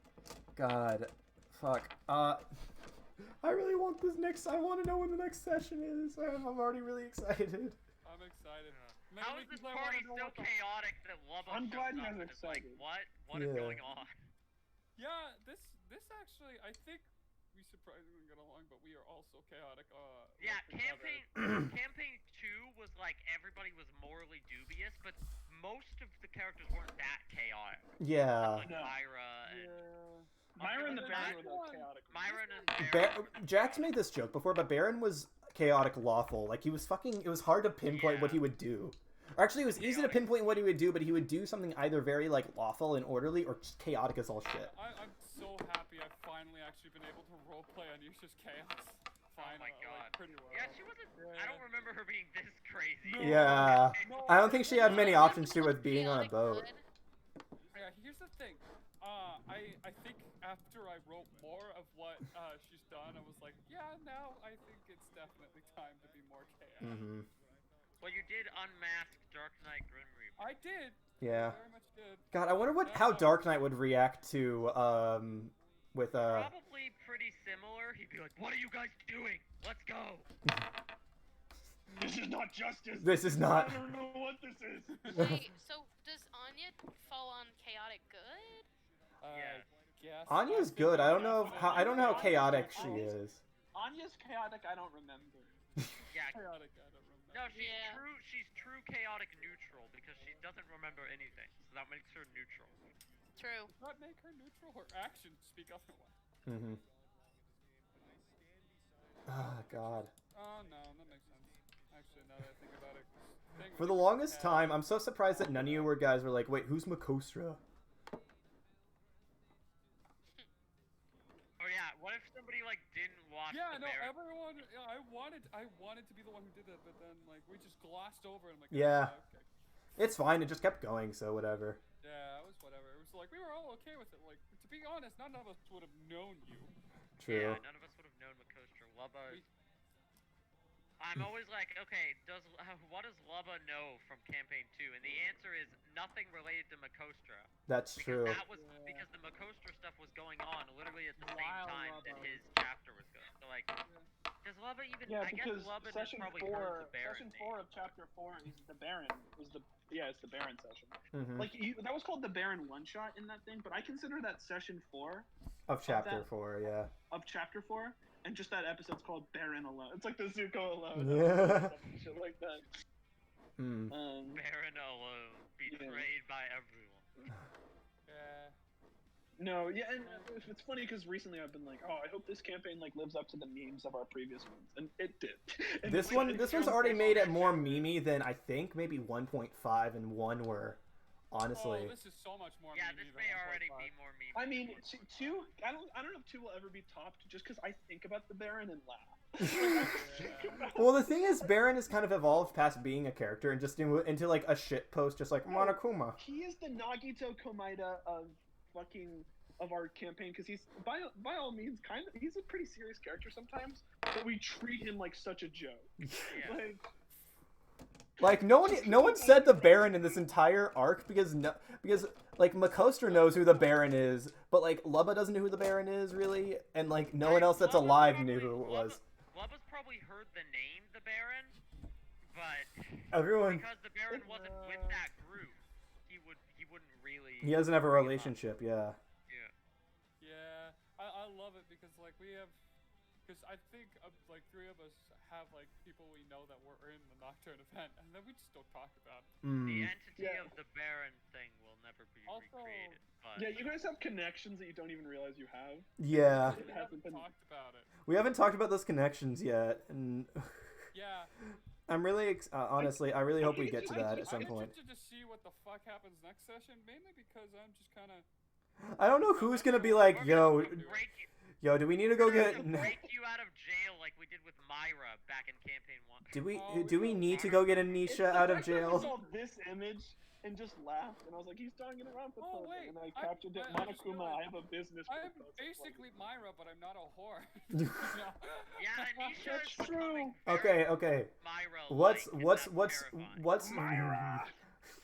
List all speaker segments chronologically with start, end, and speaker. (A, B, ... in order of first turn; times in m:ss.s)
0:00.6-0:02.4 A
0:03.4-0:07.8 A
0:08.0-0:10.5 B
0:08.7-0:14.1 C
0:11.5-0:12.8 D
0:13.3-0:13.8 A
0:15.0-0:21.2 B
0:20.4-0:29.8 C
0:28.0-0:28.7 A
0:28.6-0:29.0 D
0:29.4-0:32.9 B
0:30.6-0:31.4 C
0:30.6-0:32.3 D
0:32.1-0:34.0 C
0:32.8-0:44.7 A
0:37.8-0:38.5 C
0:39.7-0:40.6 C
0:44.5-0:51.7 B
0:49.4-0:55.2 C
0:53.0-0:55.4 B
0:53.2-0:56.6 A
0:54.8-0:56.8 E
0:57.7-1:07.0 B
1:06.8-1:07.3 A
1:08.0-1:10.5 C
1:10.4-1:13.5 B
1:11.2-1:11.6 A
1:12.3-1:16.5 A
1:16.2-1:20.3 C
1:21.9-1:25.2 D
1:23.0-1:23.9 A
1:24.9-1:25.3 B
1:25.1-1:28.7 E
1:25.2-1:25.4 A
1:29.2-1:33.1 B
1:29.3-1:29.6 C
1:30.3-1:33.4 A
1:31.4-1:33.2 D
1:33.7-1:35.5 D
1:36.1-1:36.4 C
1:36.3-1:37.6 B
1:37.3-1:42.8 C
1:37.5-1:38.0 E
1:43.4-1:43.7 E
1:43.8-1:46.1 B
1:46.4-1:46.8 A
1:49.2-1:50.1 A
1:50.3-1:55.9 B
1:53.8-1:57.6 A
2:01.6-2:04.1 C
2:03.5-2:09.5 B
2:08.7-2:09.2 A
2:10.0-2:11.8 A
2:12.0-2:16.7 B
2:17.2-2:17.6 A
2:17.2-2:19.4 C
2:21.0-2:33.7 C
2:27.7-2:28.4 A
2:28.5-2:29.1 B
2:31.2-2:32.4 B
2:33.8-2:34.1 B
2:34.4-2:37.6 C
2:35.0-2:45.3 D
2:41.1-2:41.5 A
2:45.7-2:46.9 A
2:45.8-2:46.3 D
2:47.1-2:52.7 D
2:50.9-2:51.8 A
2:53.6-2:53.9 A
2:53.9-2:54.4 D
2:54.3-2:57.3 C
2:55.7-2:56.1 D
2:58.0-2:58.5 B
2:59.4-3:07.7 D
3:00.0-3:00.4 B
3:05.8-3:11.9 A
3:06.2-3:06.8 B
3:06.4-3:07.6 C
3:11.5-3:13.9 B
3:12.7-3:15.5 C
3:14.3-3:21.5 D
3:19.4-3:19.9 A
3:19.6-3:20.8 B
3:20.7-3:26.2 A
3:25.5-3:36.9 D
3:36.0-3:36.3 A
3:36.3-3:36.6 C
3:38.2-3:40.2 D
3:38.2-3:49.0 A
3:47.2-3:51.5 C
3:52.2-3:58.4 C
3:53.1-3:53.6 A
3:54.1-3:55.0 B
3:57.4-3:59.0 A
3:59.3-3:59.5 C
4:00.2-4:02.6 B
4:03.2-4:09.3 B
4:09.4-4:09.9 A
4:09.6-4:13.7 C
4:10.2-4:10.5 D
4:12.3-4:13.0 B
4:13.4-4:17.3 D
4:16.0-4:16.6 A
4:16.4-4:17.9 B
4:18.0-4:20.5 A
4:20.9-4:21.3 B
4:21.9-4:24.7 A
4:22.8-4:24.6 D
4:23.8-4:28.3 B
4:28.8-4:30.9 A
4:29.3-4:31.1 B
4:30.1-4:31.3 C
4:31.6-4:33.0 A
4:32.1-4:36.4 C
4:36.3-4:39.1 A
4:36.5-4:37.4 B
4:37.2-4:38.1 C
4:38.0-4:46.0 D
4:38.3-4:39.3 B
4:42.4-4:44.5 B
4:45.0-4:49.4 B
4:48.8-4:53.4 C
4:49.4-4:50.3 D
4:50.4-4:51.3 A
4:51.9-4:54.5 A
4:53.6-4:54.5 D